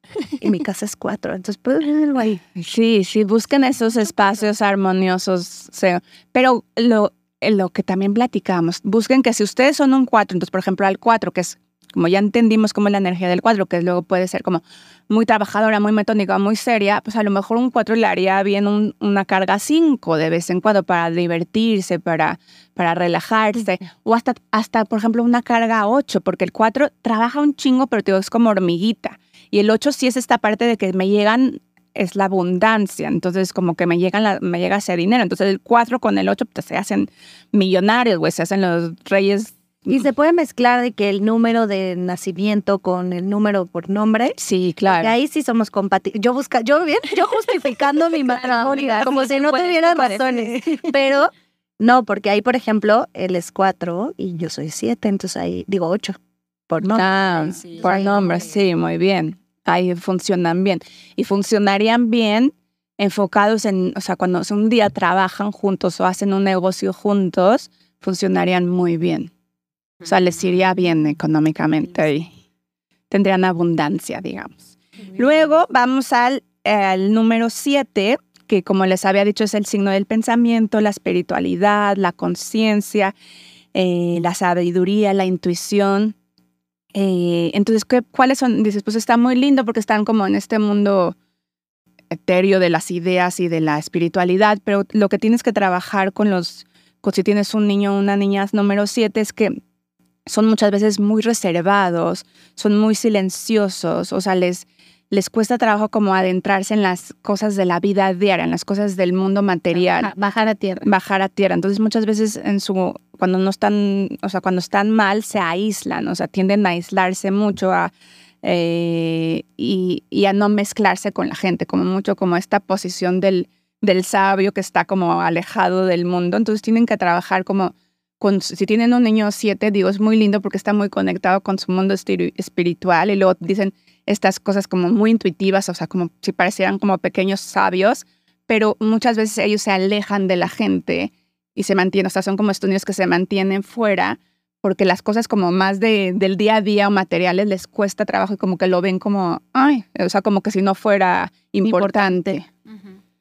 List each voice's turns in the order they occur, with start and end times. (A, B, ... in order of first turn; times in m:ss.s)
0:00.4-0:02.4 A
0:02.6-0:40.0 B
0:39.9-0:44.4 A
0:44.4-0:45.2 B
0:44.9-0:51.1 A
0:48.3-0:51.3 C
0:51.8-0:56.2 A
0:56.7-0:58.3 A
0:56.9-1:09.3 B
1:10.0-1:12.3 B
1:13.1-1:23.1 B
1:23.7-1:26.1 B
1:26.9-1:31.2 B
1:32.1-1:39.6 B
1:40.2-1:50.1 B
1:49.9-1:50.8 C
1:50.8-1:57.9 B
1:58.4-2:32.4 B
2:31.6-2:32.4 C